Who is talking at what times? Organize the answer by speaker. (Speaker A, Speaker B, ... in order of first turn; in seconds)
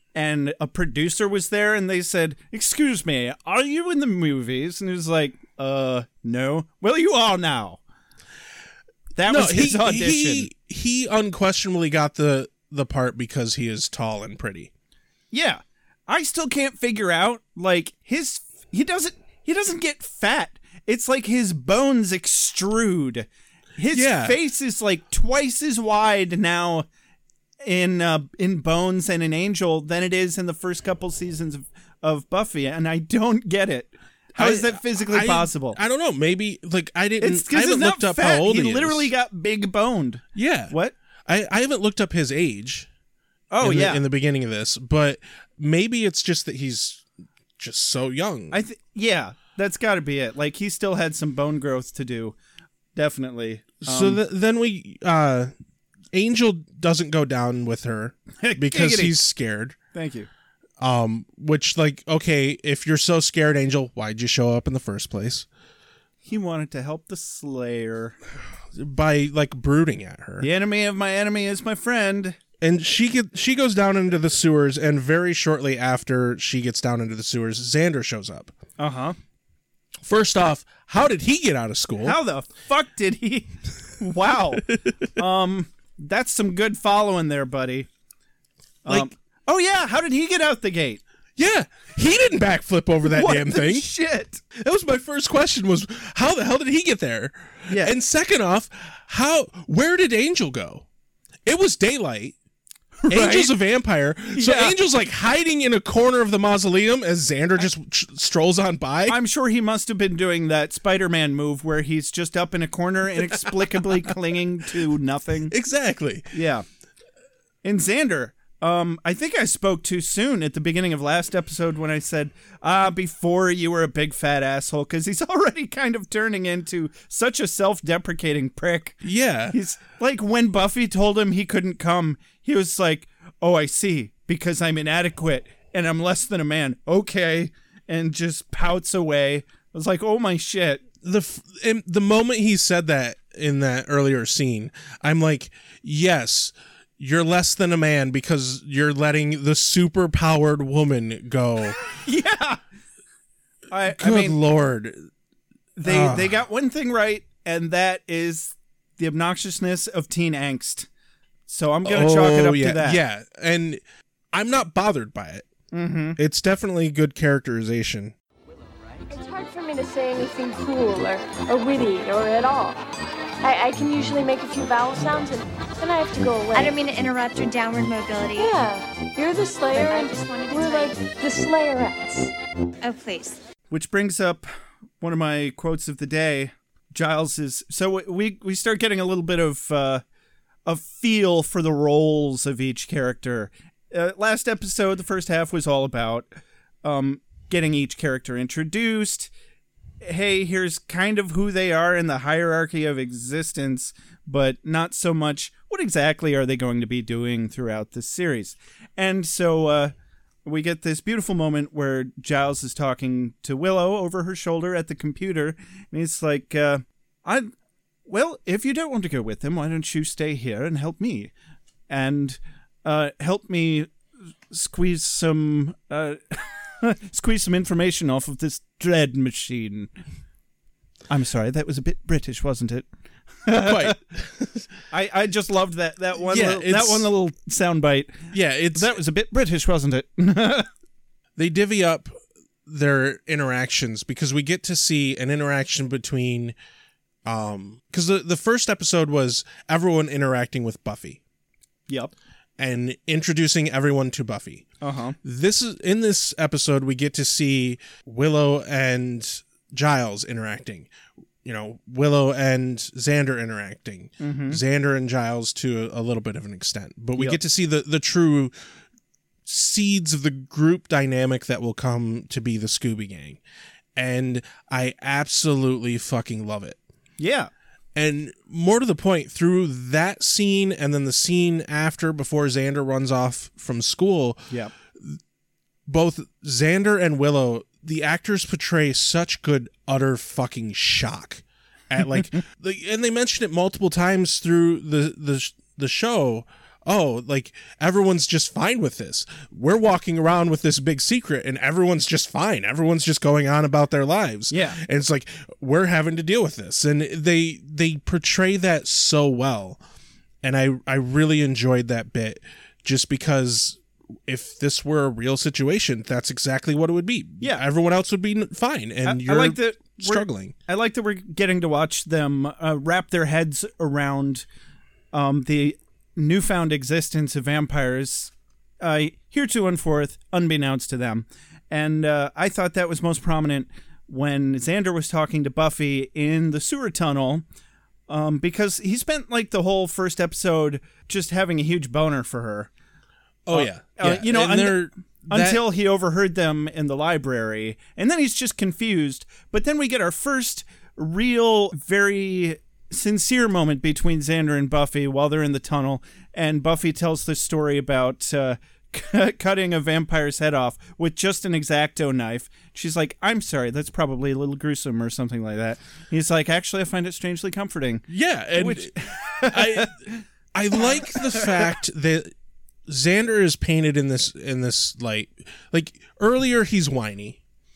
Speaker A: 0.1-7.8, 9.1-10.5, 15.3-26.9, 27.6-35.8, 37.2-41.0, 43.5-44.0, 48.5-52.3, 52.9-54.2, 58.4-59.2, 59.9-60.3, 66.2-68.2, 70.4-72.4, 78.8-79.2, 82.0-87.9, 88.8-91.0, 93.1-94.4, 97.7-97.9, 103.0-103.5, 104.3-104.8, 109.1-115.5, 116.3-116.6, 117.6-140.8, 151.9-152.6, 153.7-154.4, 155.8-160.9, 161.5-163.0, 165.7-166.2, 183.7-184.4, 185.0-190.0, 190.7-196.3, 196.8-199.3, 200.0-209.9, 210.4-217.5, 218.1-221.3, 221.9-223.9, 224.5-229.9, 231.1-232.8, 233.4-233.9, 234.9-240.7, 254.8-255.2, 264.2-264.6, 277.2-277.5, 304.5-304.8, 319.0-324.4, 325.1-337.4, 338.1-342.7, 343.5-370.2, 370.7-371.7
Speaker B: 9.3-14.7, 23.9-24.4, 34.4-39.1, 40.3-40.7, 41.3-42.9, 43.6-47.0, 47.6-48.6, 53.8-55.5, 56.1-59.8, 60.8-65.5, 68.7-70.5, 72.6-78.5, 80.0-82.2, 88.8-89.1, 91.4-93.9, 94.5-100.8, 101.5-102.3, 103.1-109.2, 115.5-116.3, 129.0-129.6, 141.0-151.8, 153.9-155.1, 155.8-156.4, 161.8-163.8, 164.3-165.5, 166.2-168.1, 233.6-234.7, 236.3-237.1, 238.3-239.0, 241.4-242.1, 242.7-246.6, 247.2-251.2, 252.6-254.7, 255.2-260.9, 261.4-268.5, 269.4-273.4, 273.9-276.8, 277.9-284.5, 285.9-309.8, 310.4-320.5, 343.4-345.6, 368.1-369.9, 370.5-372.3, 372.9-377.4
Speaker C: 169.1-172.8, 173.4-176.7, 178.4-182.3
Speaker D: 176.5-178.6, 179.7-181.0, 182.8-183.4